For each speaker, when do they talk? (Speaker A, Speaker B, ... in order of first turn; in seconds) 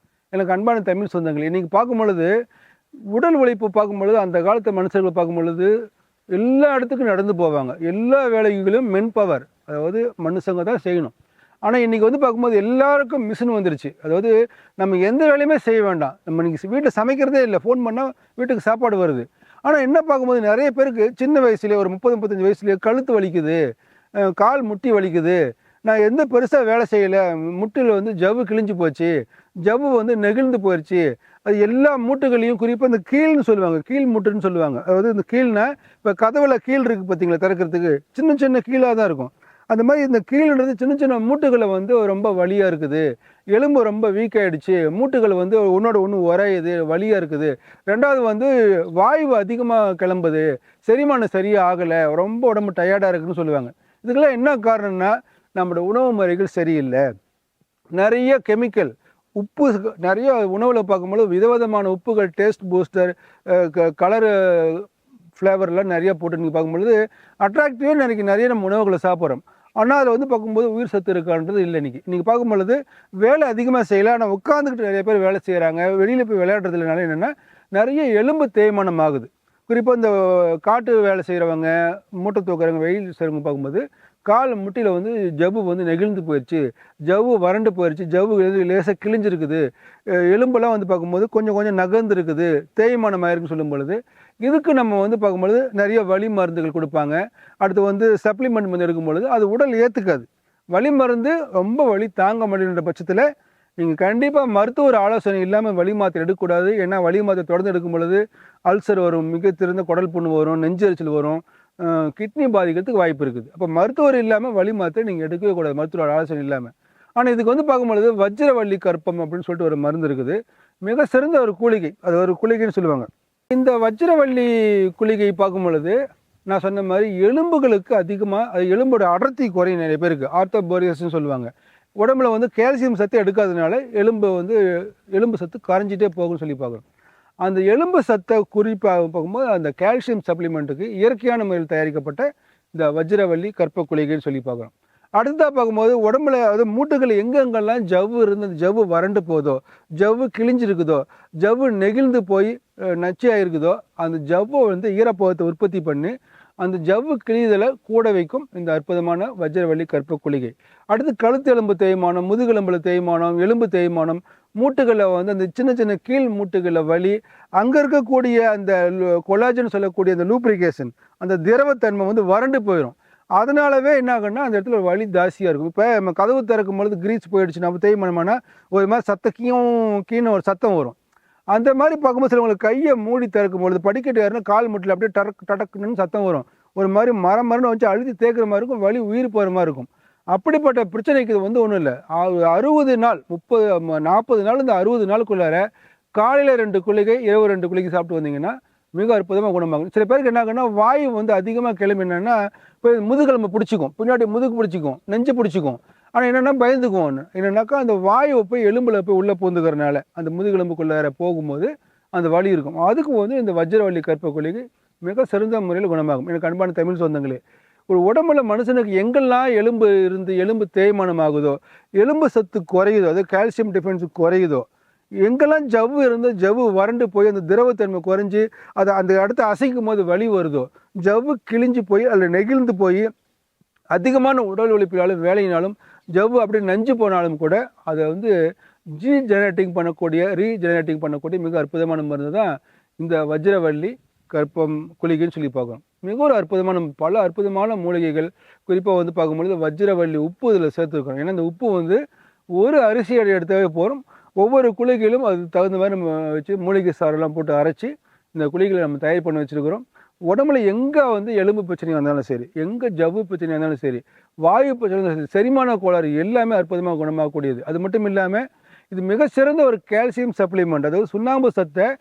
Speaker A: 0.3-2.3, 3.1-5.7, 6.3-11.1, 11.6-23.6, 24.2-29.1, 29.6-57.1, 58.0-103.2, 103.8-126.0, 126.5-134.6, 135.1-136.8, 137.4-180.9, 181.5-224.6, 225.2-233.1, 233.9-238.3, 238.9-252.0, 252.6-271.9